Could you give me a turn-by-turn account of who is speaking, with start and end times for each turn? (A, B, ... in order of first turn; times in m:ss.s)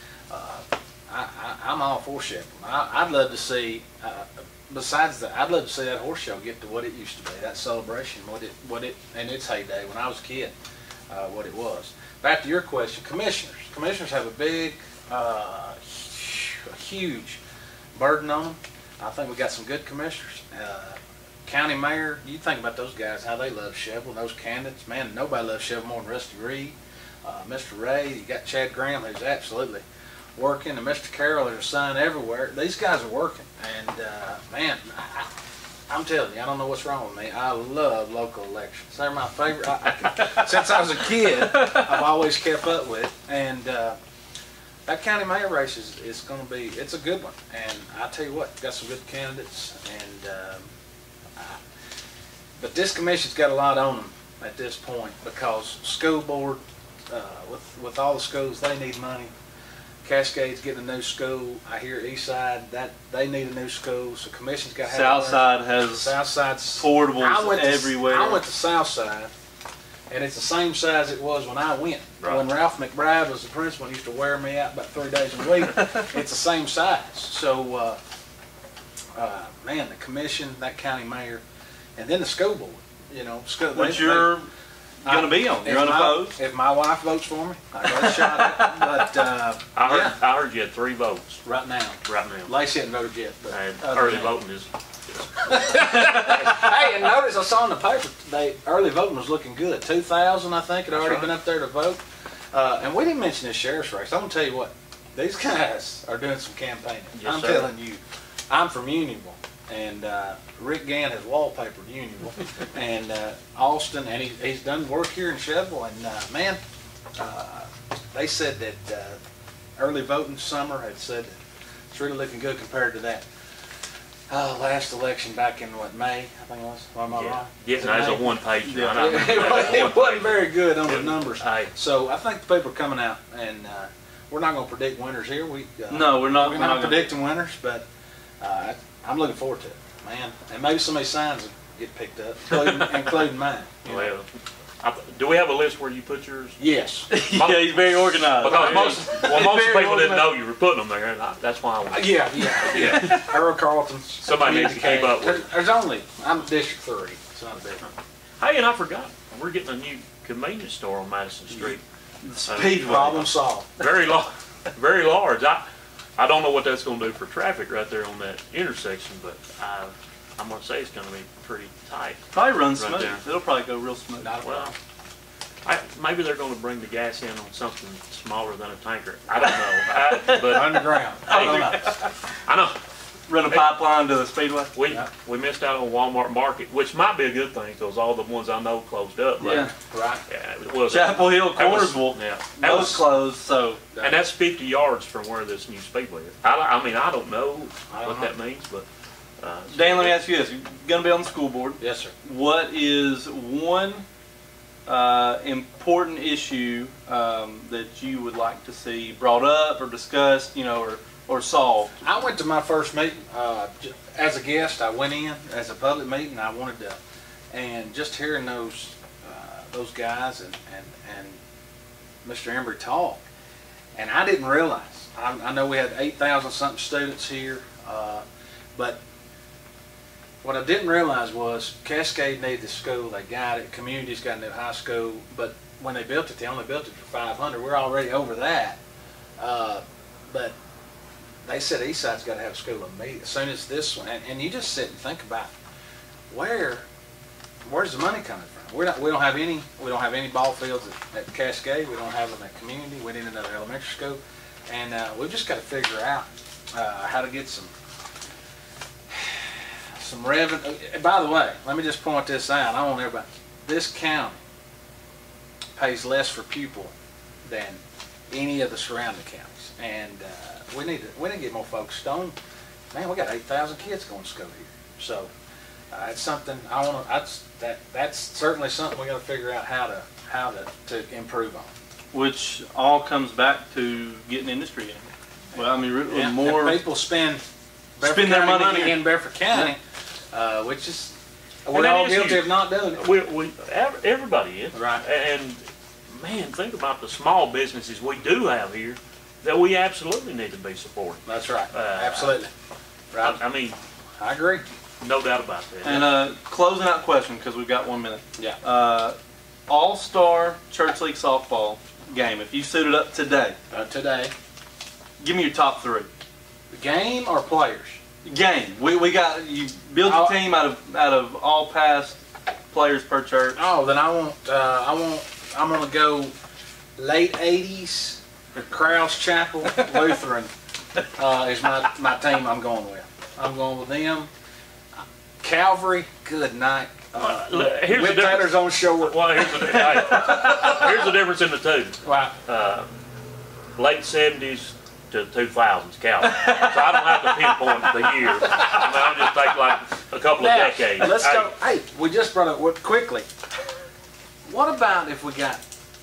0:00.3-0:10.5 A
0:11.1-0:17.4 A
0:17.9-0:29.8 A
0:30.4-0:35.3 A
0:35.9-0:44.0 A
0:40.2-0:41.9 B
0:44.8-0:50.7 A
0:52.6-0:59.3 A
1:00.0-1:09.3 A
1:04.8-1:06.1 B
1:06.8-1:08.4 B
1:10.1-1:18.0 A
1:12.2-1:12.5 C
1:15.8-1:16.0 B
1:19.2-1:21.4 A
1:22.0-1:24.4 A
1:23.7-1:24.5 B
1:25.0-1:30.1 A
1:25.0-1:26.4 B
1:27.8-1:29.2 B
1:29.7-1:31.4 C
1:31.4-1:34.4 A
1:32.0-1:32.5 C
1:33.5-1:36.1 C
1:35.5-1:42.0 A
1:40.9-1:41.3 C
1:42.5-1:56.6 A
1:47.2-1:47.7 C
1:57.2-1:59.2 A
1:59.8-2:01.3 A
2:01.9-2:03.2 A
2:04.3-2:08.4 A
2:07.1-2:11.7 C
2:08.6-2:09.5 B
2:08.9-2:17.8 A
2:15.9-2:17.1 B
2:18.4-2:24.1 A
2:22.5-2:23.3 C
2:23.8-2:24.3 C
2:24.8-2:26.6 C
2:26.6-2:27.1 A
2:27.1-2:30.3 B
2:27.3-2:33.2 C
2:28.5-2:29.7 A
2:31.9-2:37.8 A
2:32.7-2:33.2 B
2:34.2-2:35.5 C
2:38.4-2:41.8 C
2:41.5-2:43.2 B
2:42.4-2:45.6 C
2:42.8-2:43.8 A
2:46.2-2:53.2 C
2:52.3-2:54.3 B
2:54.2-2:54.7 A
2:54.4-2:54.7 C
2:55.6-3:02.8 C
3:00.1-3:02.0 B
3:00.4-3:01.9 A
3:03.3-3:04.7 B
3:04.7-3:09.7 C
3:09.4-3:09.7 B
3:09.9-3:10.2 A
3:10.3-3:13.0 C
3:10.9-3:13.8 B
3:12.6-3:13.0 A
3:14.0-3:18.9 C
3:17.9-3:18.3 A
3:19.4-3:20.2 C
3:19.7-3:24.0 B
3:21.8-3:22.1 A
3:24.8-3:32.0 B
3:32.0-3:37.0 A
3:37.5-3:41.4 A
3:42.2-3:43.2 A
3:44.0-3:49.0 A
3:50.4-3:58.8 A
3:59.4-4:00.5 A
4:01.4-4:05.5 A
4:06.3-4:06.8 A
4:07.6-4:17.7 A
4:19.1-4:24.4 A
4:25.8-4:26.9 A
4:27.4-4:32.3 A
4:32.9-4:35.3 A
4:35.9-4:41.7 A
4:42.1-4:46.8 B
4:46.1-4:47.4 A
4:48.0-4:49.8 A
4:48.0-4:49.7 B
4:50.3-4:51.1 A
4:51.6-4:53.1 A
4:51.7-5:02.4 C
4:54.7-4:55.0 A
5:01.2-5:02.5 A
5:03.1-5:03.4 A
5:03.2-5:03.8 C
5:04.2-5:04.6 A
5:05.0-5:06.1 C
5:05.8-5:09.2 B
5:09.7-5:13.6 B
5:13.7-5:14.3 A
5:15.2-5:16.1 B
5:16.7-5:18.0 A
5:18.2-5:22.2 B
5:20.0-5:20.4 A
5:22.7-5:23.6 B
5:23.6-5:26.3 A
5:27.0-5:30.5 A
5:31.1-5:34.3 A
5:35.4-5:41.1 A
5:37.2-5:42.9 C
5:42.0-5:42.3 A
5:43.8-5:51.5 C
5:48.4-5:49.4 A
5:50.4-5:53.3 A
5:54.4-5:55.6 A